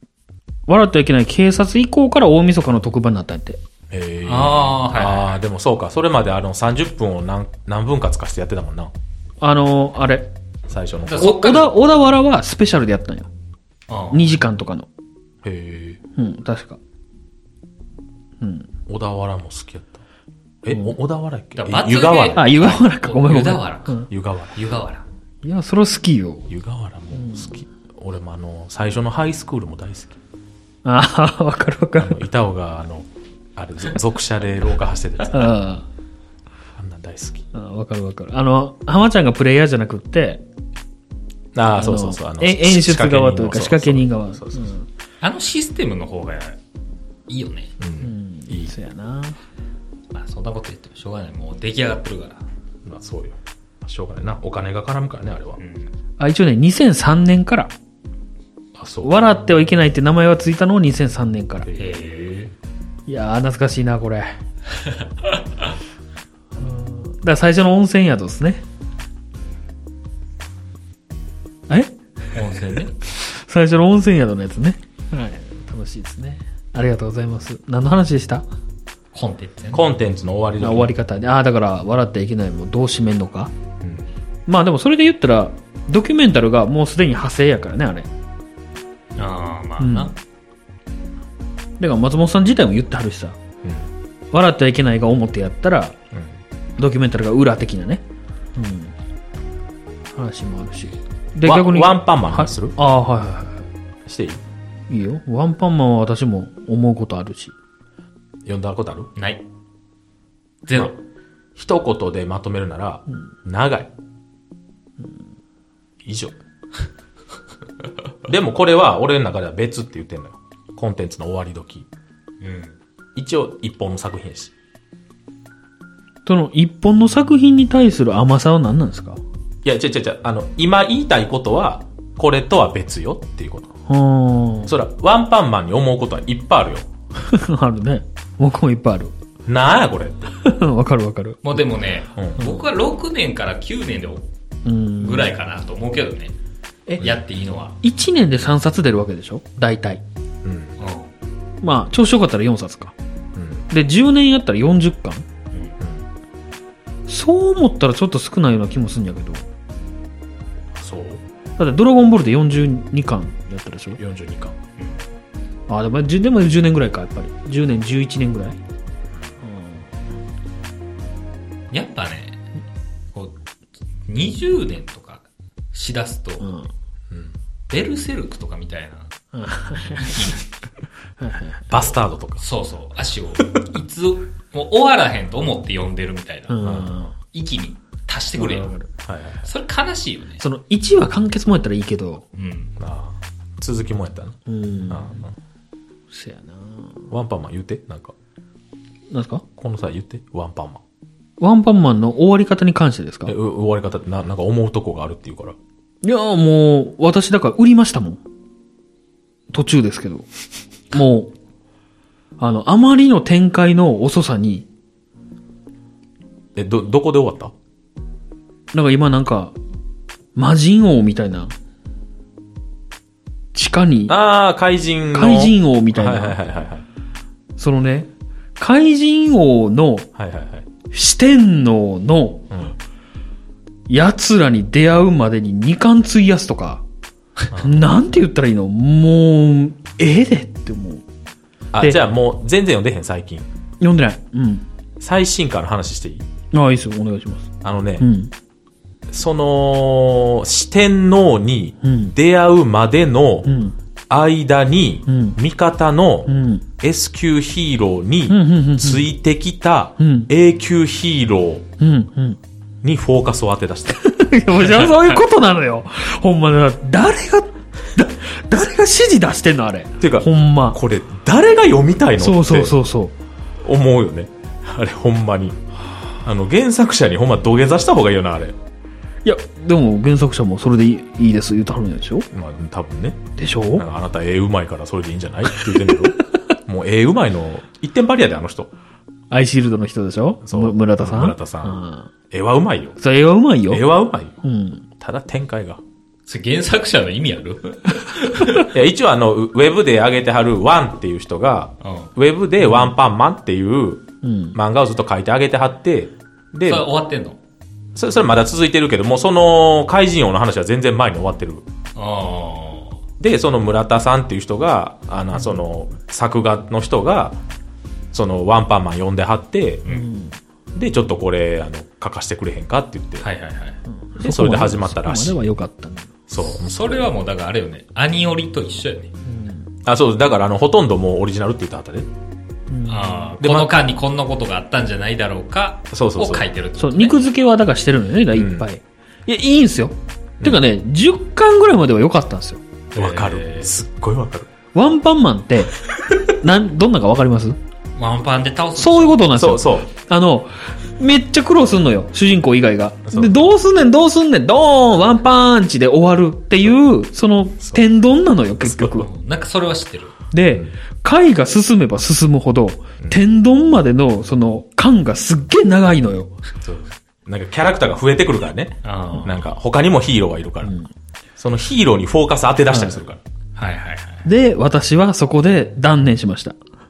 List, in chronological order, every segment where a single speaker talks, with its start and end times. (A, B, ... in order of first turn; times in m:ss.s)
0:00.7-0:03.6 A
0:03.9-0:08.9 B
0:04.2-0:05.4 C
0:09.4-0:10.3 A
0:10.7-0:11.3 B
0:11.0-0:11.7 C
0:11.2-0:13.3 A
0:13.9-0:14.4 C
0:14.1-0:14.9 A
0:15.4-0:16.0 B
0:16.2-0:16.8 A
0:18.4-0:18.7 A
0:18.9-0:20.0 B
0:20.6-0:22.5 B
0:21.6-0:25.0 C
0:22.3-0:24.1 A
0:24.1-0:24.6 B
0:25.4-0:26.5 A
0:26.5-0:30.2 B
0:27.1-0:27.5 A
0:30.8-0:32.2 A
0:32.0-0:35.5 B
0:35.3-0:35.8 A
0:36.8-0:37.4 B
0:37.5-0:40.4 A
0:41.5-0:44.7 B
0:41.7-0:44.8 A
0:45.2-0:46.6 C
0:47.3-0:47.7 C
0:47.8-0:48.7 B
0:48.0-0:49.4 A
0:50.1-0:52.4 C
0:52.8-0:55.6 B
0:55.6-0:55.9 C
0:56.2-0:57.7 A
0:58.8-0:59.2 B
0:59.0-1:01.7 A
1:01.6-1:01.9 B
1:01.7-1:02.5 C
1:03.1-1:04.4 A
1:06.6-1:08.6 A
1:11.7-1:18.4 A
1:12.3-1:13.0 C
1:19.1-1:19.8 C
1:19.7-1:20.9 B
1:20.6-1:23.5 A
1:23.8-1:24.1 B
1:24.5-1:28.1 A
1:29.2-1:30.1 C
1:29.8-1:30.1 A
1:31.8-1:33.4 A
1:33.6-1:33.9 B
1:34.3-1:36.0 A
1:36.8-1:38.0 A
1:38.6-1:38.9 A
1:40.1-1:43.6 A
1:41.4-1:42.7 B
1:44.0-1:44.4 B
1:44.9-1:47.5 A
1:48.4-1:49.1 B
1:49.2-1:49.4 C
1:50.6-1:51.0 C
1:51.6-1:53.9 B
1:56.0-1:56.4 B
1:58.2-2:01.9 B
2:02.4-2:02.8 C
2:03.2-2:04.5 B
2:06.2-2:09.2 A
2:09.6-2:13.7 B
2:13.9-2:14.7 A
2:14.6-2:16.9 B
2:17.2-2:19.1 A
2:19.4-2:20.3 B
2:20.4-2:21.4 A
2:21.4-2:24.2 C
2:24.6-2:25.3 A
2:25.0-2:26.3 C
2:27.0-2:27.8 C
2:27.8-2:30.0 A
2:30.4-2:30.8 B
2:30.8-2:31.1 C
2:31.6-2:32.9 A
2:33.4-2:33.6 B
2:33.7-2:35.2 A
2:35.8-2:36.1 B
2:37.1-2:39.4 A
2:40.7-2:41.2 B
2:41.6-2:44.0 A
2:44.0-2:44.5 B
2:44.8-2:45.0 C
2:45.7-2:48.6 A
2:49.4-2:49.9 A
2:51.7-2:52.4 C
2:54.1-2:56.5 C
2:56.4-2:56.7 A
2:57.1-2:57.4 B
2:57.7-2:59.1 C
2:59.3-3:00.3 A
3:00.0-3:00.3 C
3:01.2-3:01.7 A
3:01.7-3:02.4 B
3:02.4-3:06.7 C
3:06.5-3:07.1 A
3:06.6-3:07.0 B
3:07.3-3:08.7 C
3:08.4-3:08.9 A
3:09.0-3:09.5 B
3:09.4-3:10.4 C
3:10.4-3:12.2 A
3:12.4-3:12.7 C
3:12.8-3:14.4 B
3:14.5-3:15.2 A
3:14.9-3:15.3 B
3:16.1-3:17.1 A
3:17.1-3:18.1 B
3:19.1-3:19.4 A
3:19.6-3:20.8 B
3:21.4-3:23.3 A
3:23.3-3:25.6 B
3:26.0-3:28.2 A
3:29.5-3:30.3 A
3:30.9-3:31.3 A
3:32.4-3:34.7 A
3:36.6-3:37.5 B
3:38.7-3:39.5 A
3:40.4-3:41.5 A
3:43.5-3:44.2 A
3:44.1-3:46.8 B
3:45.1-3:46.4 A
3:47.6-3:50.1 A
3:50.2-3:50.6 B
3:50.9-3:52.5 A
3:52.5-3:52.8 B
3:53.9-3:56.8 A
3:57.5-3:57.8 B
3:57.5-4:01.0 A
4:01.7-4:03.5 B
4:03.8-4:04.6 A
4:05.0-4:06.2 B
4:06.5-4:08.3 A
4:07.6-4:08.1 B
4:09.1-4:13.5 B
4:11.8-4:12.2 A
4:13.4-4:13.8 A
4:14.1-4:21.7 B
4:15.1-4:15.4 A
4:16.2-4:16.6 A
4:18.3-4:19.0 A
4:20.0-4:20.3 A
4:21.8-4:22.4 A
4:22.8-4:24.1 B
4:23.9-4:30.8 A
4:24.6-4:25.2 C
4:30.0-4:32.8 B
4:32.2-4:33.1 A
4:33.6-4:35.6 B
4:36.2-4:38.6 B
4:39.2-4:42.3 A
4:42.3-4:48.7 B
4:43.4-4:43.8 A
4:45.6-4:45.9 A
4:49.3-4:52.1 A
4:50.4-4:51.8 B
4:52.3-4:53.0 B
4:53.0-4:53.8 A
4:53.7-4:54.4 B
4:54.4-4:54.8 A
4:55.0-4:55.8 B
4:56.3-4:58.7 C
4:58.6-5:06.9 B
5:01.8-5:02.1 C
5:02.6-5:02.9 A
5:04.2-5:04.6 A
5:06.6-5:07.4 C
5:07.9-5:11.6 B
5:11.9-5:13.0 C
5:13.2-5:17.4 B
5:18.1-5:19.8 B
5:19.9-5:20.4 A
5:20.7-5:23.3 B
5:23.2-5:23.8 C
5:23.9-5:26.1 A
5:24.2-5:25.4 B
5:26.3-5:27.1 B
5:26.5-5:29.1 C
5:29.2-5:29.7 A
5:29.8-5:32.1 B
5:32.7-5:33.3 A
5:32.9-5:37.1 C
5:33.4-5:33.8 B
5:35.9-5:36.5 B
5:36.8-5:42.6 A
5:38.3-5:38.6 B
5:42.9-5:43.7 C
5:42.9-5:44.5 B
5:44.7-5:47.6 A
5:48.0-5:49.4 C
5:48.8-5:59.1 A
5:49.3-5:49.9 B
5:53.1-5:53.5 B
5:58.6-5:59.0 B
5:59.0-6:00.2 C
6:00.3-6:06.3 A
6:06.6-6:10.8 B
6:08.8-6:09.4 C
6:10.6-6:10.9 A
6:11.4-6:13.2 B
6:12.7-6:13.0 A
6:13.6-6:14.2 C
6:14.2-6:16.6 A